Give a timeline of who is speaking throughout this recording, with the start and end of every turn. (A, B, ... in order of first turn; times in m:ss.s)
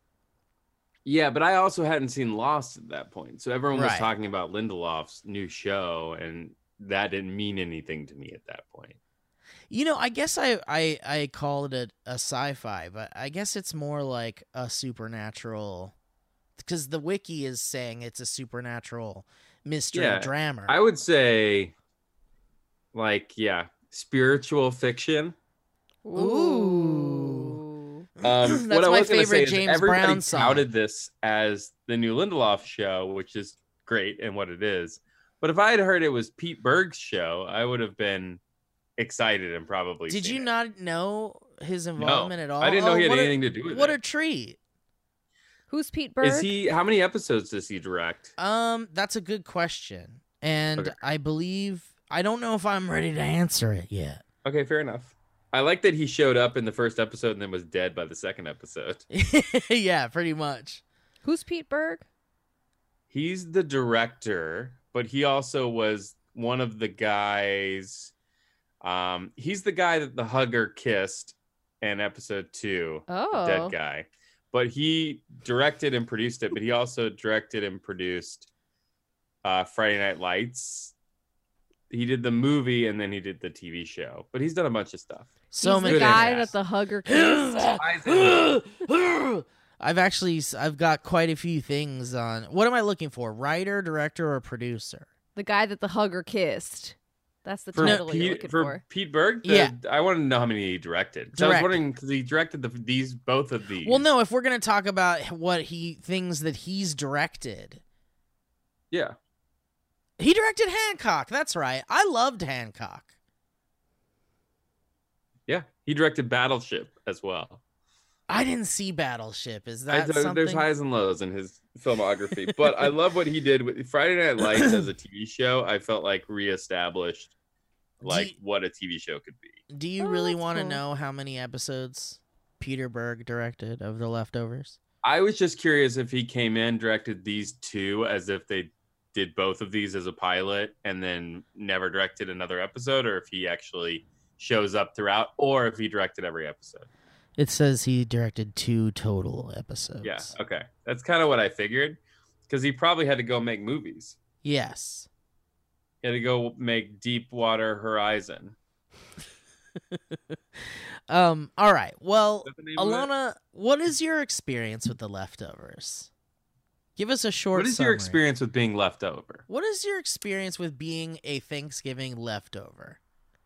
0:01.0-0:09.0 A
0:03.7-0:04.1 B
0:09.7-0:16.0 B
0:16.6-0:20.8 B
0:19.9-0:21.7 A
0:22.9-0:25.4 A
0:26.0-0:28.1 C
0:26.1-0:27.6 B
0:28.2-0:30.7 B
0:28.2-0:38.4 A
0:39.0-0:40.5 A
0:40.1-0:44.6 B
0:42.0-0:44.0 A
0:45.7-0:46.5 C
0:46.2-0:48.3 A
0:48.4-0:54.2 B
0:54.4-0:59.0 A
0:59.1-1:00.8 B
1:01.2-1:02.0 C
1:03.1-1:08.1 A
1:08.8-1:18.5 A
1:13.1-1:13.7 C
1:19.4-1:20.9 A
1:21.9-1:26.5 A
1:25.5-1:26.5 B
1:25.6-1:27.6 C
1:27.1-1:35.1 B
1:27.8-1:28.5 A
1:35.4-1:38.8 C
1:37.7-1:44.0 A
1:37.8-1:38.0 B
1:39.4-1:39.8 B
1:41.3-1:41.8 B
1:43.8-1:47.8 B
1:48.9-1:49.2 A
1:50.2-1:53.1 B
1:55.5-1:57.6 A
1:58.3-2:00.7 B
1:59.9-2:07.3 A
2:02.5-2:02.8 B
2:04.6-2:04.8 B
2:08.0-2:09.6 A
2:08.0-2:08.4 B
2:09.7-2:14.8 B
2:10.0-2:10.8 C
2:15.0-2:26.9 A
2:27.4-2:30.3 B
2:30.0-2:34.2 A
2:34.4-2:35.1 B
2:36.0-2:38.6 A
2:40.6-2:46.1 B
2:42.4-2:43.1 A
2:47.0-2:48.2 B
2:47.6-2:49.4 A
2:49.5-2:53.0 B